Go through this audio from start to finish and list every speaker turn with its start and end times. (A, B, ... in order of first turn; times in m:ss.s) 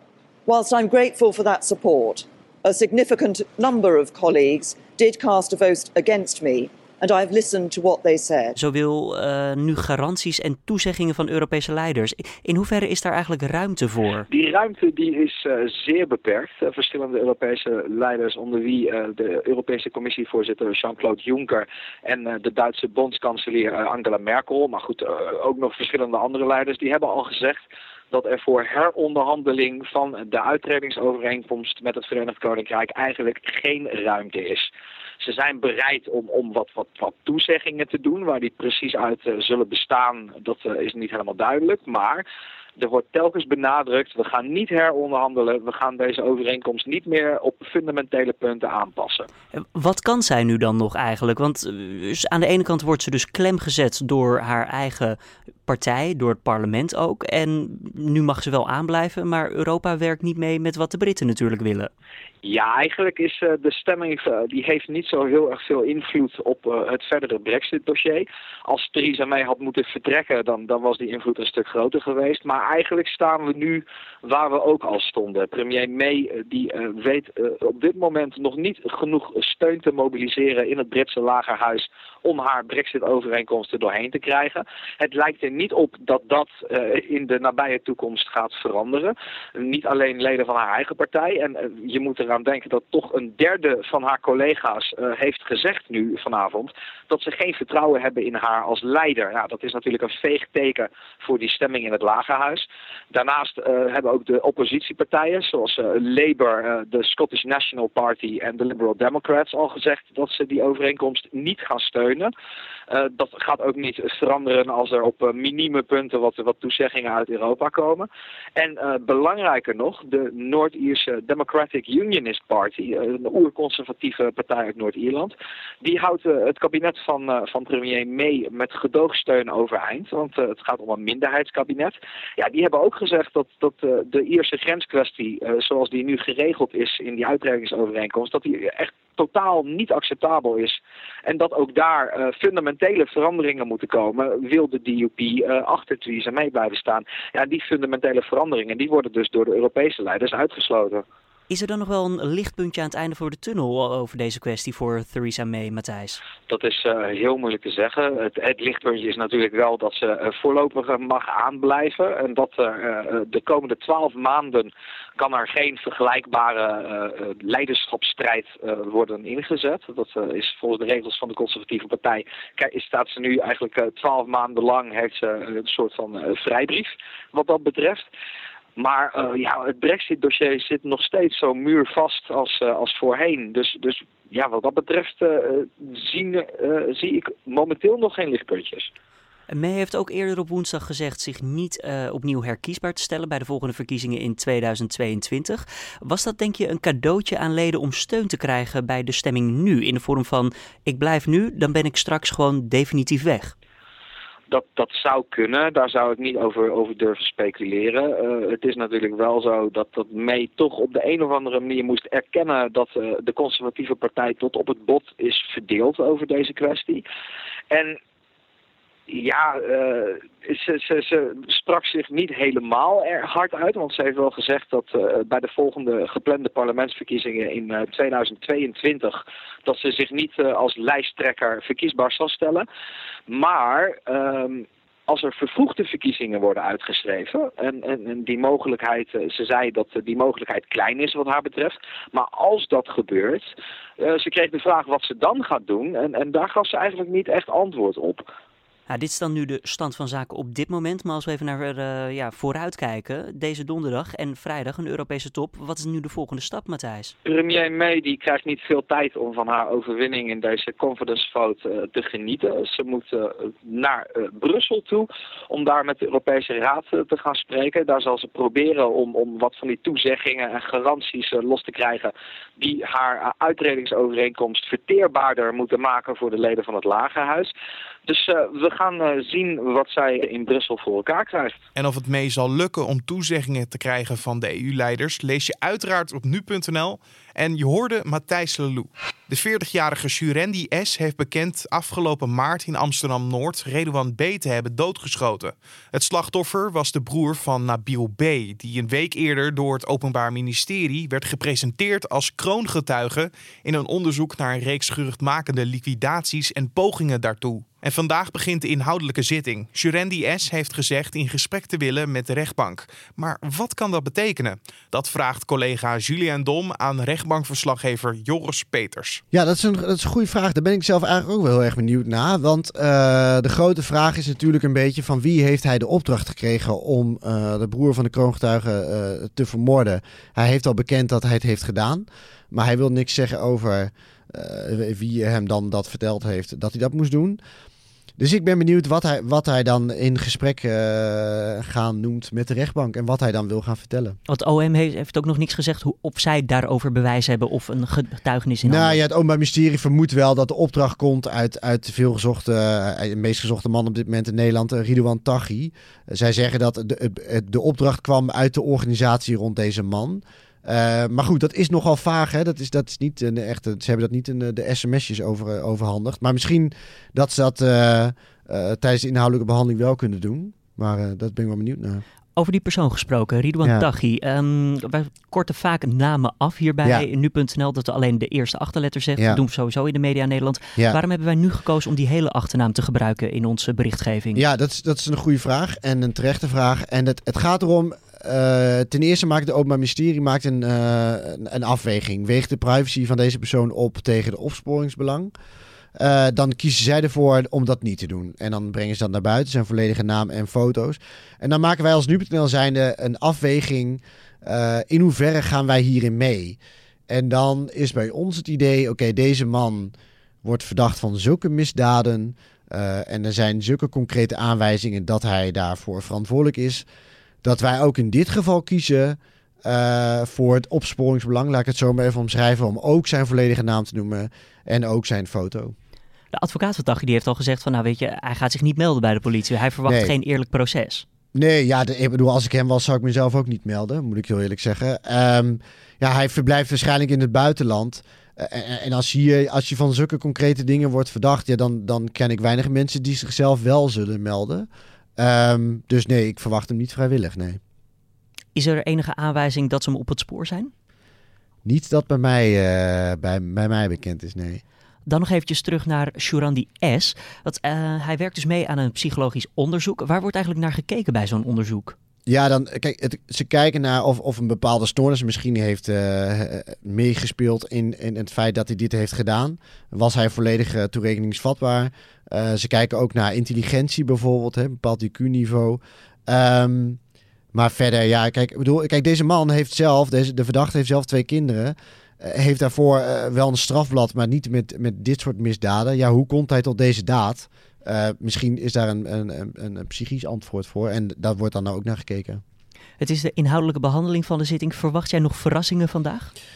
0:00.5-0:08.5 A
0:08.6-0:14.3 B
0:14.3-0:34.7 C
0:35.2-0:42.2 C
0:42.8-0:49.3 C
0:49.5-1:01.9 B
1:02.4-1:52.3 C
1:52.9-2:31.0 C
2:31.5-2:36.2 B
2:36.5-2:58.1 C
2:58.8-3:08.9 C
3:09.5-3:23.5 B
3:24.5-3:37.0 C
3:37.7-3:38.0 C
3:39.1-3:52.6 C
3:53.3-4:03.5 C
4:04.0-4:08.2 C
4:08.9-4:17.1 B
4:17.2-4:37.5 C
4:38.0-4:41.6 C
4:41.7-5:19.2 D
5:19.3-5:37.4 E
5:38.2-5:44.2 E
5:44.3-5:49.0 B
5:48.6-6:12.0 E
6:12.4-6:24.4 B
6:24.3-6:35.3 E
6:36.0-6:46.6 E
6:47.1-6:49.9 E
6:50.4-6:56.8 E
6:57.4-7:05.7 E
7:06.3-7:11.0 B
7:09.9-7:10.1 E
7:11.3-7:27.6 E
7:28.5-7:30.7 B
7:31.6-7:34.6 E
7:35.0-7:41.9 B
7:42.2-7:57.0 E
7:57.5-8:12.4 E
8:13.0-8:16.3 B